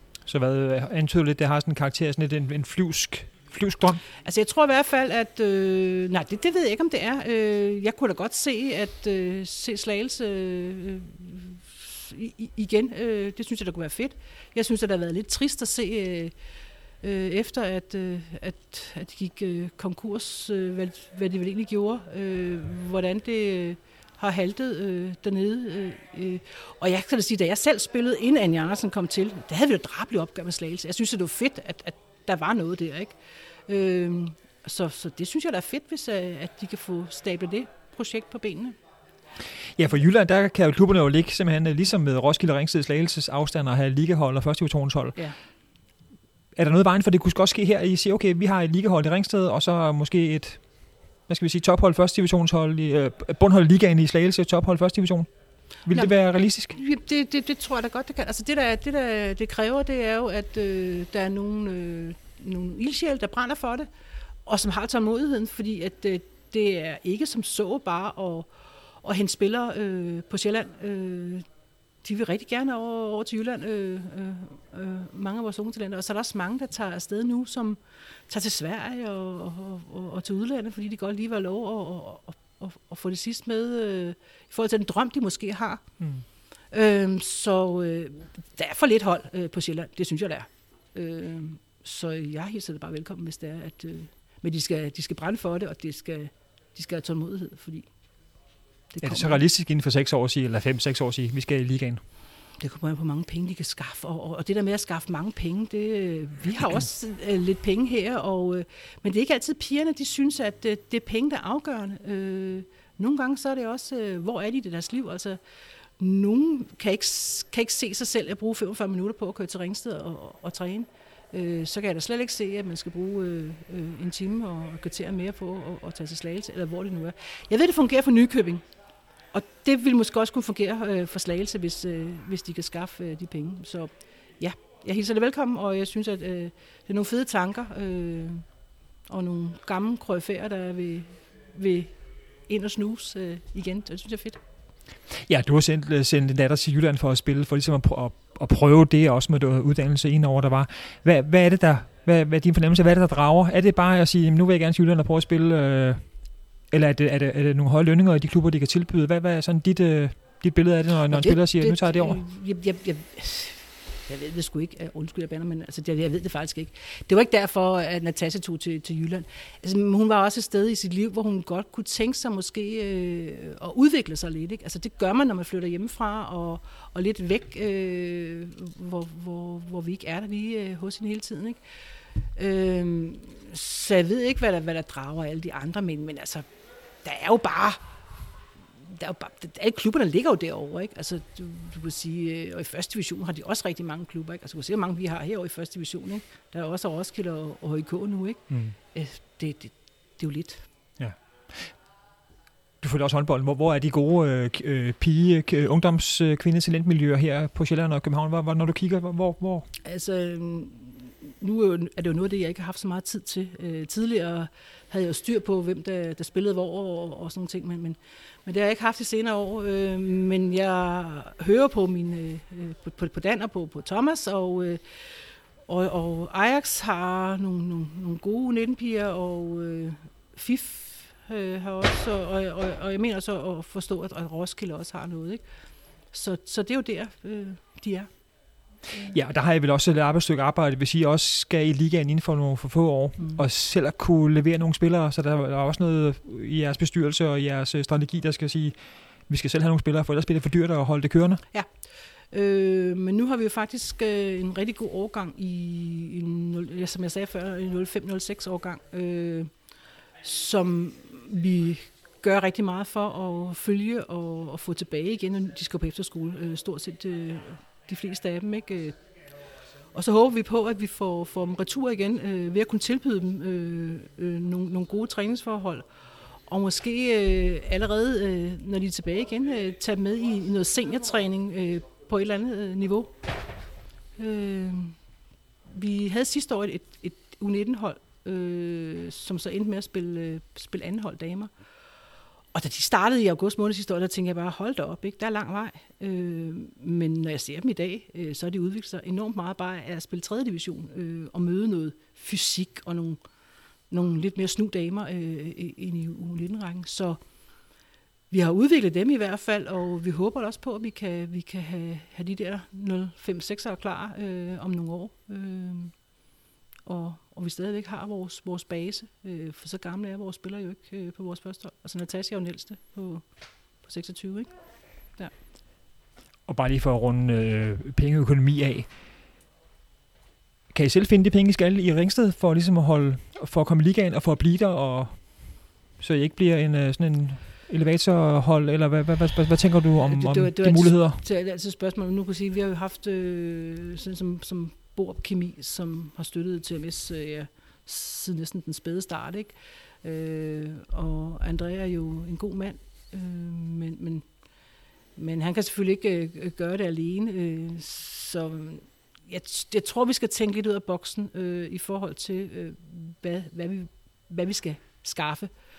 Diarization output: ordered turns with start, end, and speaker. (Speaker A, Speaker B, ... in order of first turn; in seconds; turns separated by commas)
Speaker A: 0.3-4.0, Speaker B: 4.2-16.3, Speaker B: 17.0-38.8, Speaker A: 39.8-45.2, Speaker A: 46.5-55.3, Speaker A: 55.8-56.8, Speaker B: 56.7-63.9, Speaker B: 64.5-71.5, Speaker B: 72.0-85.8, Speaker A: 86.0-86.2, Speaker B: 86.7-97.9, Speaker B: 98.9-99.4, Speaker A: 99.0-102.0, Speaker B: 102.6-115.4, Speaker B: 116.0-128.6, Speaker B: 129.3-138.4, Speaker B: 139.1-141.9, Speaker B: 142.5-144.4, Speaker A: 145.1-162.2, Speaker B: 161.1-181.6, Speaker B: 182.2-186.5, Speaker B: 187.0-187.9, Speaker B: 188.8-200.7, Speaker A: 198.5-198.8, Speaker A: 201.0-201.8, Speaker A: 202.8-209.7, Speaker B: 209.8-235.4, Speaker B: 236.1-238.1, Speaker A: 239.0-251.4, Speaker B: 243.2-243.4, Speaker B: 251.5-259.5, Speaker B: 260.2-269.0, Speaker B: 269.9-283.1, Speaker B: 284.2-285.0, Speaker B: 285.7-291.5, Speaker B: 292.5-303.2, Speaker B: 303.9-307.2, Speaker B: 308.3-316.1, Speaker B: 316.9-324.5, Speaker A: 326.5-328.9, Speaker A: 330.7-341.2, Speaker B: 340.1-354.3, Speaker B: 355.2-365.5